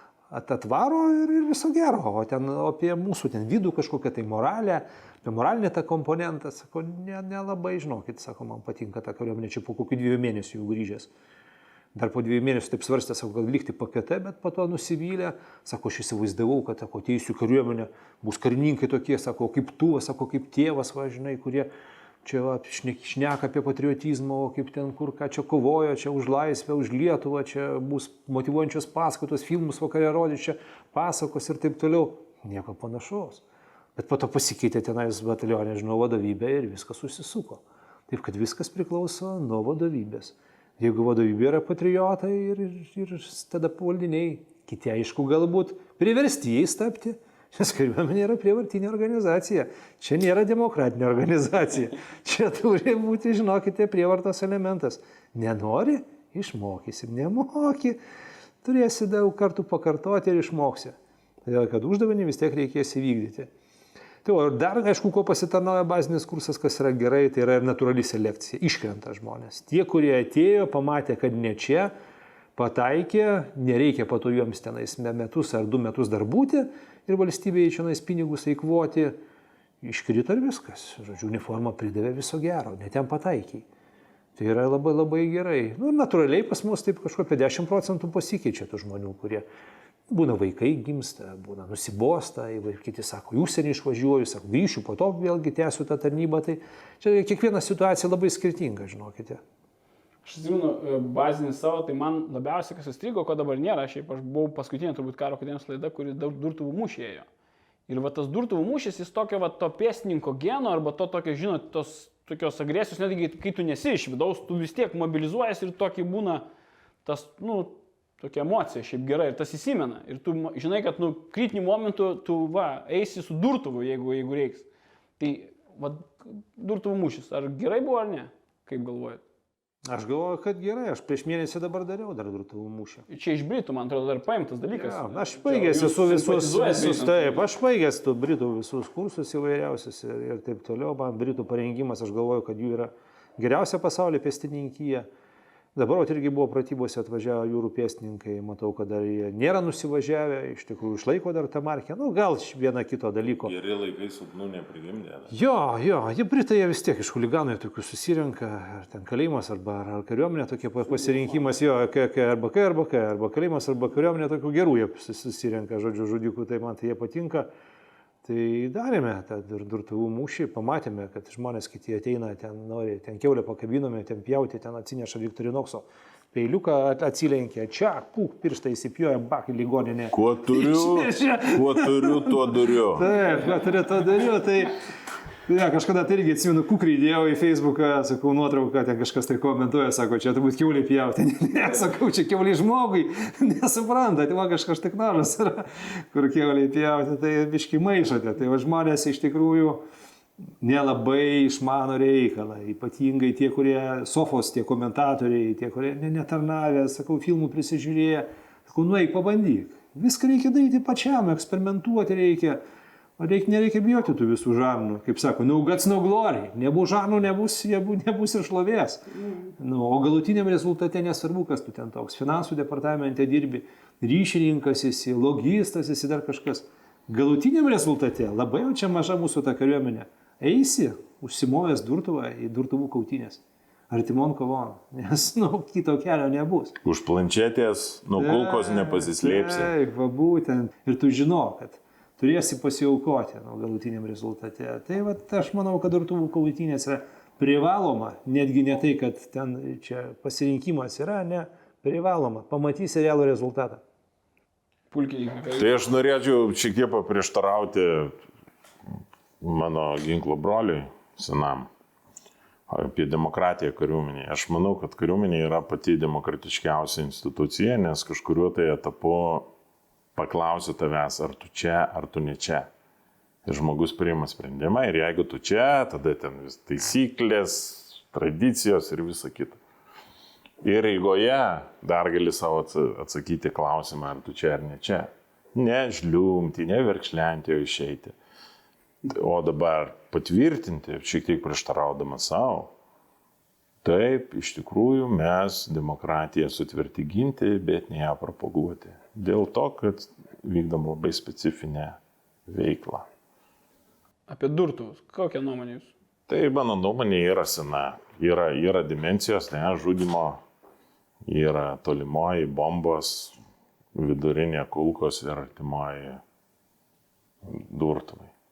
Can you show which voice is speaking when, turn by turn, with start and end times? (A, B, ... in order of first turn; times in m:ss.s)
0:00.3-0:11.1 A
0:11.9-0:21.7 A
0:22.2-0:33.4 A
0:34.0-0:58.0 A
0:58.6-1:03.5 A
1:04.2-1:11.9 A
1:12.6-1:19.2 A
1:19.8-1:23.6 A
1:24.4-1:29.4 A
1:30.1-1:39.4 A
1:40.2-1:47.3 B
1:47.9-1:56.4 B
1:57.0-2:04.7 B
2:05.2-2:09.2 B
2:09.9-2:13.0 A
2:13.1-2:17.5 B
2:14.7-2:25.1 A
2:25.7-2:33.5 A
2:33.3-2:35.3 C
2:35.3-2:47.5 A
2:48.2-3:04.8 A
3:00.1-3:03.1 C
3:05.4-3:19.8 A
3:20.6-3:32.6 A
3:33.2-3:56.8 A
3:56.8-3:59.7 C
3:58.2-4:13.8 A
4:14.9-4:15.8 B
4:15.6-4:18.2 C
4:19.4-4:21.7 C
4:22.7-4:29.5 C
4:30.2-4:32.7 C
4:33.4-4:39.6 C
4:40.6-4:48.1 C
4:49.0-4:52.7 C
4:53.8-5:03.0 C
5:04.3-5:05.9 B
5:06.3-5:10.4 C
5:11.2-5:13.4 C
5:13.9-5:16.2 C
5:17.4-5:18.3 C